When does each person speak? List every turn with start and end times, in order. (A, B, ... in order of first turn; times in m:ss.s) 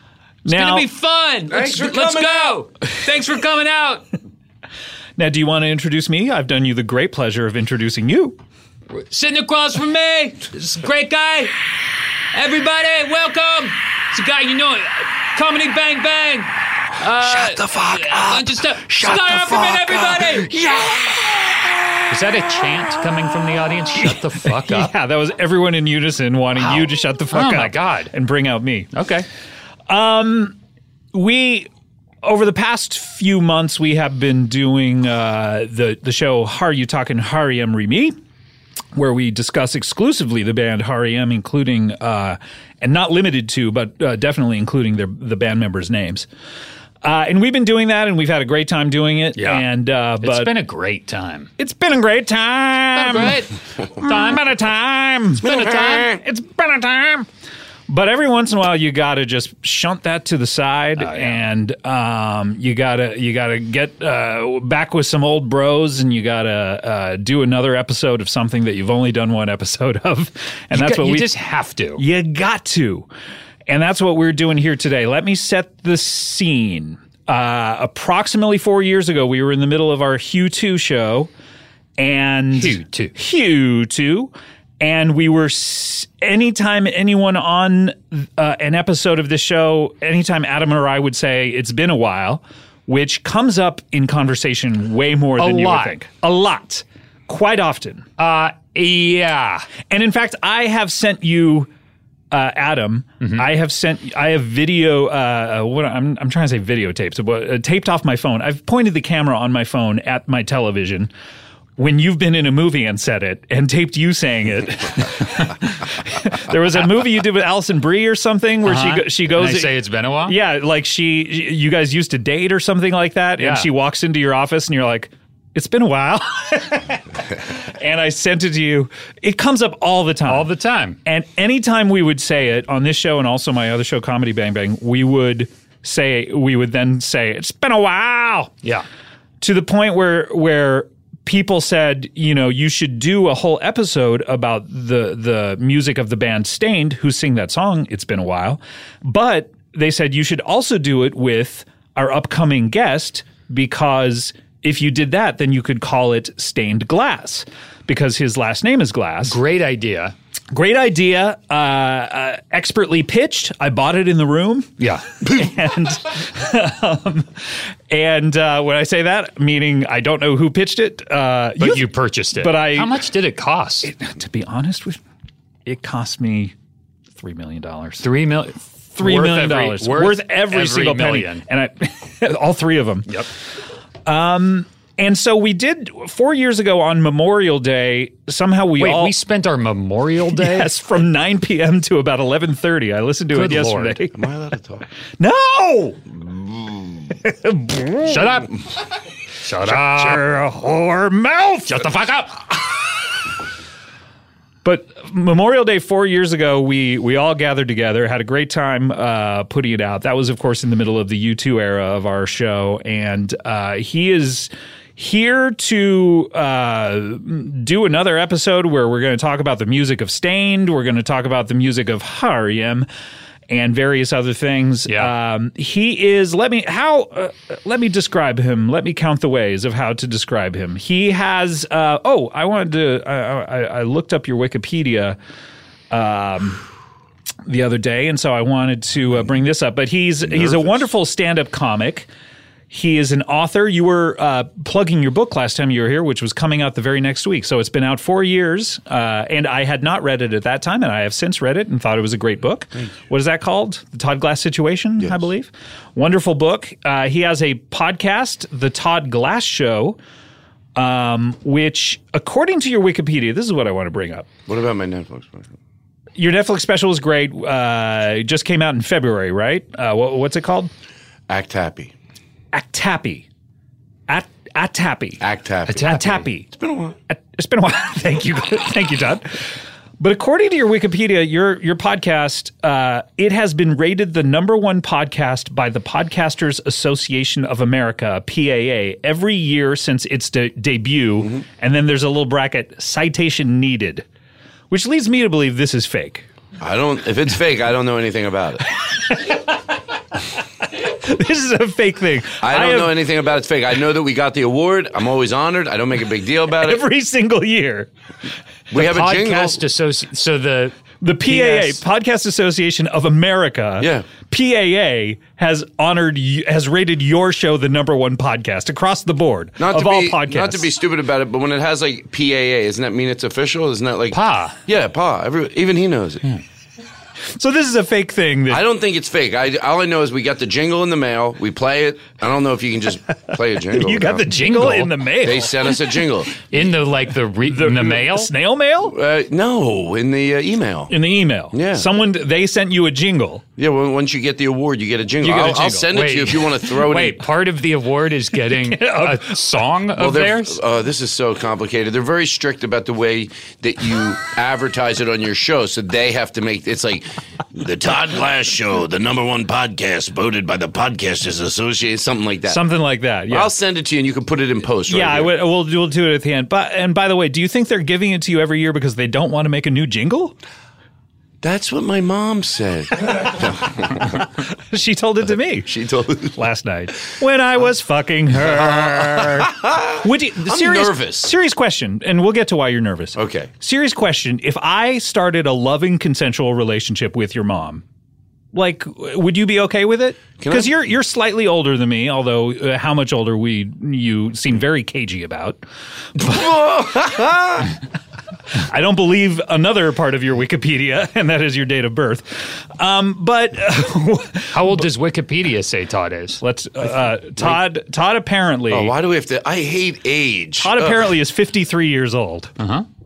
0:00.4-0:00.9 A
0:00.4-0:04.0 B
0:01.5-0:02.6 C
0:05.2-0:08.4 A
0:08.9-0:11.5 B
0:12.3-0:20.6 B
0:17.2-0:21.2 A
0:22.1-0:24.9 B
0:24.0-0:28.9 A
0:26.6-0:28.1 B
0:28.9-0:29.2 B
0:29.9-0:30.6 A
0:31.1-0:31.7 A
0:32.2-0:38.1 A
0:38.9-0:46.2 A
0:47.0-0:50.5 A
0:49.4-0:49.6 B
0:50.2-0:51.5 B
0:51.6-0:53.4 A
0:52.9-0:54.4 B
0:54.0-0:57.3 A
0:55.4-0:56.2 C
0:57.9-1:11.3 A
1:01.0-1:01.4 B
1:10.7-1:12.0 B
1:12.0-1:13.1 A
1:13.7-1:21.3 A
1:22.0-1:38.1 A
1:22.5-1:23.1 B
1:35.4-1:36.0 B
1:38.2-1:39.7 B
1:39.9-1:41.7 A
1:42.3-1:51.1 A
1:51.8-1:59.7 A
1:58.6-2:00.4 B
2:00.2-2:10.5 A
2:03.4-2:03.7 B
2:10.3-2:11.0 B
2:11.0-2:18.5 A
2:19.4-2:39.4 A
2:39.2-2:40.1 B
2:40.5-2:53.0 A
2:44.8-2:45.1 B
2:51.6-2:53.9 B
2:53.8-2:55.0 A
2:55.6-2:56.5 A
2:57.2-2:58.1 A
2:58.0-3:01.4 B
2:58.9-3:03.2 A
3:04.0-3:09.1 A
3:08.8-3:10.7 B
3:10.4-3:14.2 A
3:13.3-3:14.0 B
3:14.1-3:14.8 C
3:15.2-3:16.0 A
3:17.1-3:18.3 A
3:18.0-3:18.6 B
3:19.4-3:20.3 B
3:19.6-3:21.8 A
3:21.7-3:22.4 B
3:24.6-3:42.9 A
3:43.5-3:55.2 A
3:44.9-3:45.1 B
3:55.9-3:56.6 A
3:57.4-4:02.1 A
4:00.4-4:00.8 C
4:02.7-4:20.0 A
4:20.8-4:24.3 A
4:24.5-4:25.5 C
4:26.2-4:30.7 A
4:31.3-4:31.9 C
4:32.5-4:33.3 A
4:34.1-4:36.4 A
4:35.2-4:37.0 C
4:35.7-4:36.2 B
4:37.1-4:39.4 A
4:40.0-4:54.0 A
4:54.7-4:56.2 A
4:56.6-4:58.7 C
4:59.1-4:59.4 A
5:00.9-5:02.9 A
5:02.4-5:06.8 C
5:06.5-5:07.9 A
5:08.7-5:09.6 C
5:08.7-5:11.8 B
5:11.0-5:20.7 A
5:13.8-5:14.0 C
5:19.6-5:26.2 C
5:24.1-5:24.6 B
5:27.3-5:28.6 A
5:28.5-5:34.4 C
5:33.7-5:35.7 A
5:34.3-5:35.0 B
5:35.2-5:36.4 C
5:36.5-5:38.3 B
5:37.4-5:38.9 A
5:38.9-5:40.9 C
5:40.9-5:43.4 A
5:41.5-5:41.9 C
5:43.6-5:47.2 C
5:45.2-5:45.9 A
5:45.9-5:50.6 B
5:48.5-5:49.4 A
5:50.0-6:02.6 C
6:02.5-6:03.5 A
6:03.3-6:05.3 C
6:04.9-6:10.4 A
6:11.4-6:14.2 C
6:14.7-6:15.7 A
6:15.6-6:16.4 C
6:16.3-6:27.8 A
6:18.5-6:21.3 C
6:23.2-6:23.5 C
6:28.5-6:35.6 A
6:30.4-6:30.7 C
6:36.2-6:37.7 C
6:36.2-6:36.5 A
6:38.5-6:44.8 A
6:44.5-6:46.4 B
6:46.4-6:48.9 A
6:48.7-6:51.1 C
6:50.6-6:52.5 A
6:52.6-6:52.8 B